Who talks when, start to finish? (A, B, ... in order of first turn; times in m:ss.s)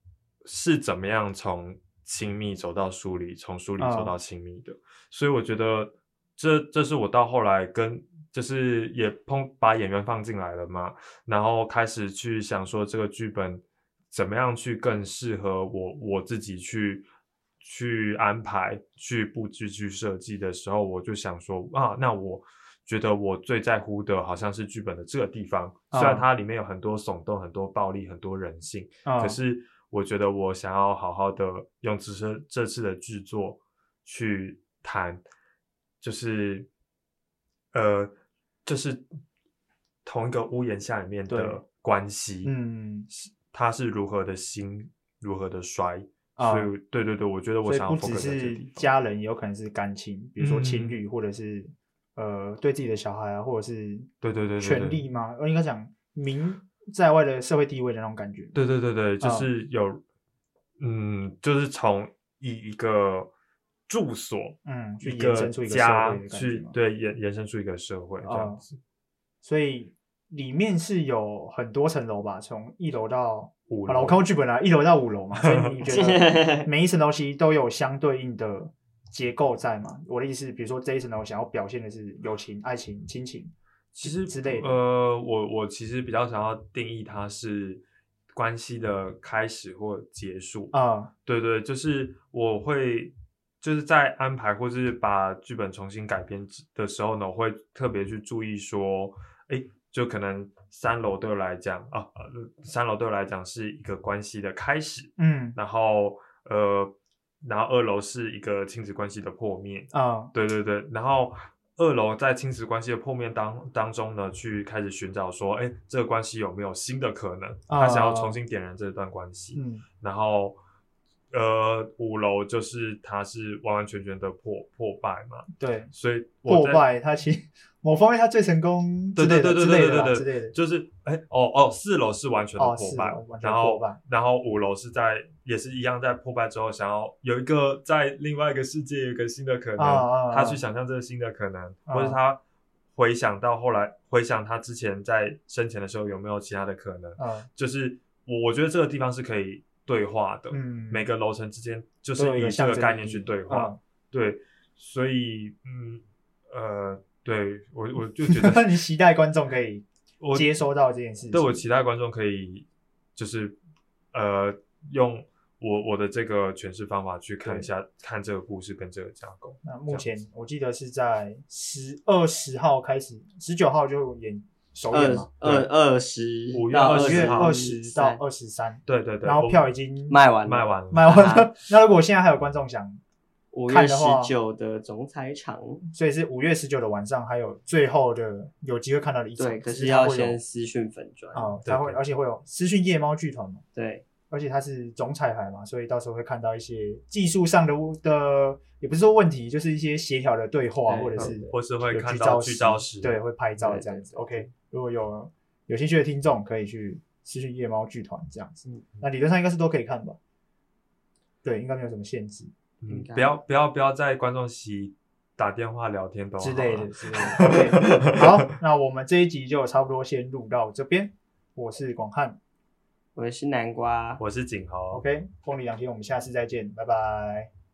0:00.4-0:17.0 A
0:03.8-0:04.1 B
0:17.6-0:35.2 A
0:25.9-0:26.2 B
0:29.0-0:29.4 B
0:36.0-0:36.7 A
0:37.7-0:38.1 A
0:38.6-0:39.1 A
0:40.0-0:42.5 A
0:41.3-0:41.6 B
0:42.4-0:43.1 B
0:43.1-0:48.9 A
0:46.4-0:46.7 B
0:47.6-0:58.6 B
0:50.4-0:51.0 A
0:54.2-0:55.0 A
0:58.5-1:00.0 A
0:59.2-0:59.5 B
1:00.8-1:03.3 A
1:03.9-1:08.8 A
1:04.6-1:06.8 B
1:08.2-1:08.6 B
1:09.4-1:24.8 B
1:13.7-1:14.2 A
1:15.4-1:15.9 A
1:15.9-1:16.7 C
1:23.9-1:27.8 A
1:28.3-1:30.7 A
1:30.7-1:31.1 B
1:31.2-2:00.6 A
1:45.2-1:45.6 B
1:49.9-1:50.3 B
1:57.7-1:58.4 B
1:59.5-1:59.8 B
2:01.3-2:06.8 A
2:05.6-2:05.9 B
2:06.4-2:10.5 B
2:09.2-2:22.4 A
2:12.6-2:14.0 B
2:19.8-2:20.6 B
2:21.8-2:22.2 B
2:22.9-2:38.7 A
2:27.2-2:27.5 B
2:30.5-2:31.1 B
2:32.2-2:33.8 B
2:38.2-2:41.6 B
2:40.2-2:40.5 A
2:41.3-2:43.6 A
2:44.1-2:50.1 A
2:47.4-2:47.7 B
2:49.6-2:55.3 B
2:54.9-2:58.2 C
2:55.4-2:55.7 A
2:56.5-2:57.5 A
2:57.0-3:00.2 B
2:58.8-2:59.7 A
3:00.1-3:01.5 C
3:00.4-3:01.2 A
3:00.9-3:03.0 B
3:03.5-3:05.8 C
3:03.7-3:04.3 B
3:05.9-3:10.4 B
3:09.4-3:11.5 C
3:11.3-3:13.6 B
3:11.6-3:12.0 A
3:13.7-3:14.0 C
3:14.3-3:30.2 B
3:20.8-3:21.3 C
3:21.2-3:23.2 A
3:23.6-3:24.5 C
3:31.4-3:32.5 B
3:32.8-3:38.5 A
3:32.9-3:33.3 C
3:36.4-3:42.4 B
3:43.2-3:44.2 C
3:44.2-3:45.0 A
3:44.9-3:47.5 B